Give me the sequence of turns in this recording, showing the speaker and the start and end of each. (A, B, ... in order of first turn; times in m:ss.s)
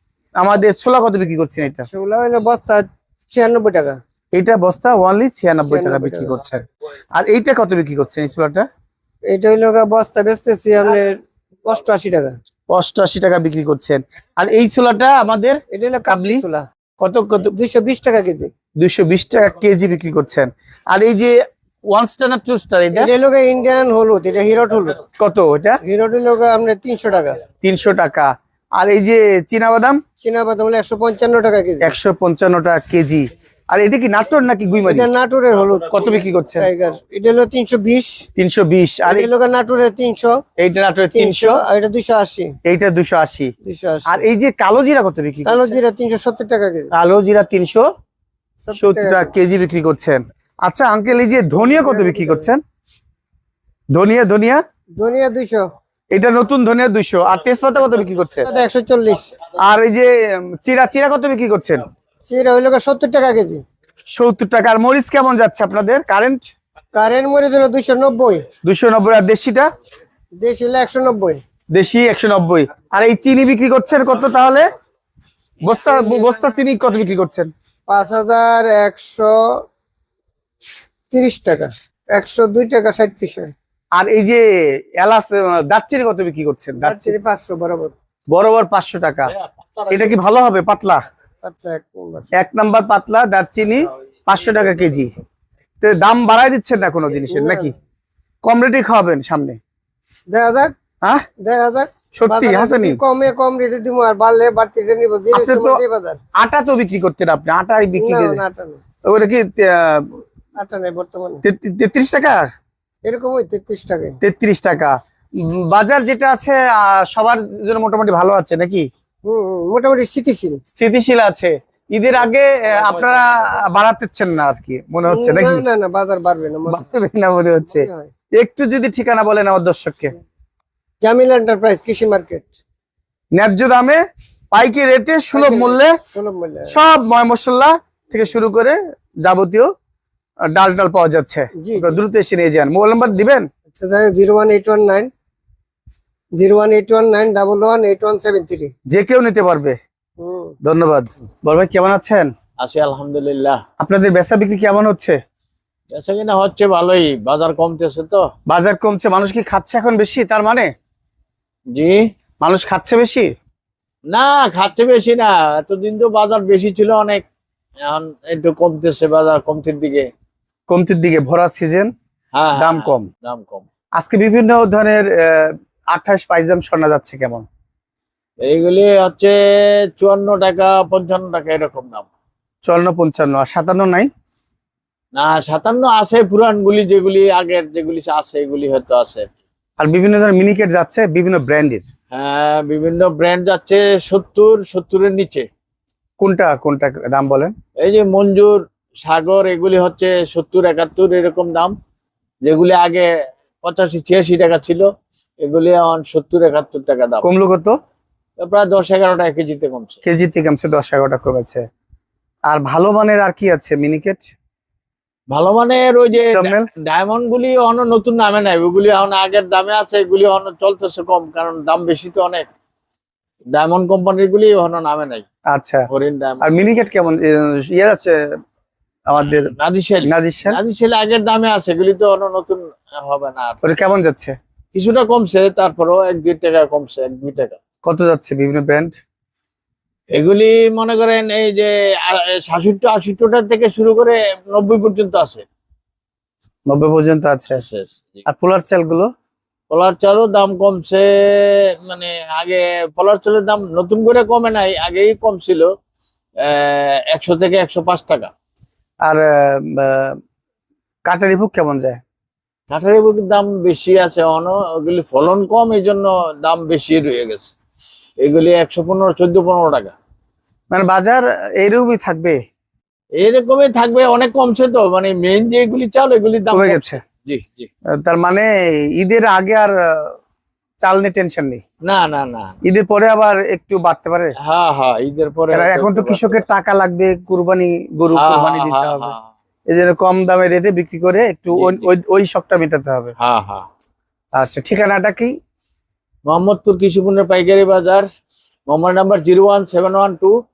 0:00.4-0:01.9 A
0:01.9-0:04.0 B
0:04.4-0:06.6 A
0:05.6-0:06.4 B
0:07.2-0:08.6 A
0:09.3-0:12.3 B
0:12.7-0:16.4 A
0:15.7-0:16.6 B
0:17.0-0:17.5 A
0:17.5-0:18.5 B
0:18.8-0:23.1 A
0:22.9-0:25.0 B
0:25.2-0:25.8 A
0:25.8-0:27.4 B
0:27.6-0:30.0 A
0:30.2-0:32.0 B
0:31.8-0:35.1 A
0:34.8-0:38.3 B
0:35.9-0:36.7 A
0:38.4-0:39.3 A
0:39.1-0:40.4 B
0:40.6-0:41.6 A
0:41.1-0:42.6 B
0:42.6-0:43.5 A
0:43.6-0:44.2 B
0:44.1-0:45.8 A
0:45.4-0:46.9 B
0:46.9-0:47.8 A
0:48.6-0:49.3 B
0:48.8-0:52.6 A
0:51.6-0:52.5 B
0:53.9-0:54.6 A
0:55.0-0:55.6 B
0:56.1-0:58.5 A
0:58.4-0:59.3 B
0:59.6-1:01.8 A
1:02.3-1:03.6 B
1:04.1-1:06.4 A
1:06.9-1:08.5 B
1:08.6-1:09.7 A
1:10.4-1:11.4 B
1:11.7-1:14.7 A
1:15.6-1:17.5 A
1:15.9-1:16.4 B
1:17.9-1:19.6 B
1:21.1-1:23.5 B
1:24.0-1:24.4 A
1:25.0-1:27.1 A
1:26.8-1:27.9 B
1:28.3-1:29.3 A
1:29.9-1:31.0 A
1:31.4-1:32.3 B
1:32.3-1:35.1 A
1:35.8-1:37.7 A
1:37.3-1:37.7 B
1:38.4-1:39.6 A
1:40.3-1:40.7 B
1:41.4-1:46.2 B
1:42.1-1:43.0 A
1:45.3-1:45.8 A
1:46.4-1:48.4 A
1:48.0-1:48.8 B
1:49.1-1:50.2 A
1:50.6-1:51.4 B
1:51.4-1:52.4 A
1:53.0-1:54.2 B
1:54.2-1:58.9 A
1:59.3-2:00.6 B
2:00.7-2:05.6 A
2:05.1-2:06.9 B
2:06.7-2:10.1 A
2:07.6-2:08.1 B
2:11.0-2:12.6 B
2:13.3-2:14.0 A
2:14.5-2:16.0 A
2:15.3-2:16.8 B
2:16.7-2:19.7 A
2:20.5-2:23.5 A
2:21.6-2:22.0 B
2:23.7-2:25.1 B
2:26.4-2:28.7 B
2:28.9-2:29.8 A
2:30.2-2:30.6 B
2:30.6-2:32.3 A
2:32.6-2:33.6 C
2:33.8-2:35.2 A
2:35.9-2:38.3 C
2:38.5-2:40.7 A
2:41.7-2:42.0 C
2:42.4-2:43.3 A
2:44.1-2:47.2 C
2:47.8-2:50.1 C
2:50.7-2:51.9 A
2:52.4-2:53.6 C
2:52.6-2:53.1 A
2:54.0-2:57.5 A
2:58.4-2:59.4 C
3:00.0-3:02.1 C
3:02.6-3:04.1 A
3:05.2-3:09.3 C
3:09.8-3:11.8 A
3:12.1-3:15.5 C
3:16.2-3:17.5 A
3:17.8-3:21.7 C
3:22.4-3:23.1 C
3:23.6-3:24.8 C
3:25.4-3:27.3 C
3:27.2-3:27.7 A
3:28.4-3:30.0 C
3:30.0-3:31.6 A
3:32.5-3:34.3 A
3:35.3-3:42.5 C
3:36.3-3:36.7 A
3:43.5-3:45.2 C
3:45.5-3:45.8 A
3:45.9-3:46.5 C
3:46.4-3:48.4 A
3:49.1-3:49.5 A
3:49.3-3:53.6 C
3:50.0-3:50.6 A
3:53.6-3:54.4 A
3:54.7-3:57.6 C
3:57.8-3:58.9 A
4:00.1-4:05.4 C
4:06.7-4:07.6 A
4:07.5-4:08.2 C
4:08.3-4:09.1 A
4:09.7-4:15.7 C
4:16.4-4:18.3 C
4:19.0-4:20.2 A
4:21.1-4:22.0 A
4:22.7-4:27.5 C
4:28.2-4:30.0 C
4:30.7-4:32.4 A
4:33.2-4:37.7 C
4:36.5-4:37.0 A
4:38.0-4:40.2 A
4:40.8-4:41.6 A
4:41.8-4:42.6 C
4:42.6-4:44.4 A
4:44.4-4:46.5 C
4:45.5-4:49.1 A
4:48.2-4:49.3 C
4:49.7-4:53.1 A
4:51.5-4:51.9 C
4:53.2-4:53.6 C
4:54.4-4:55.3 A
4:56.3-4:58.0 C
4:58.7-5:00.3 C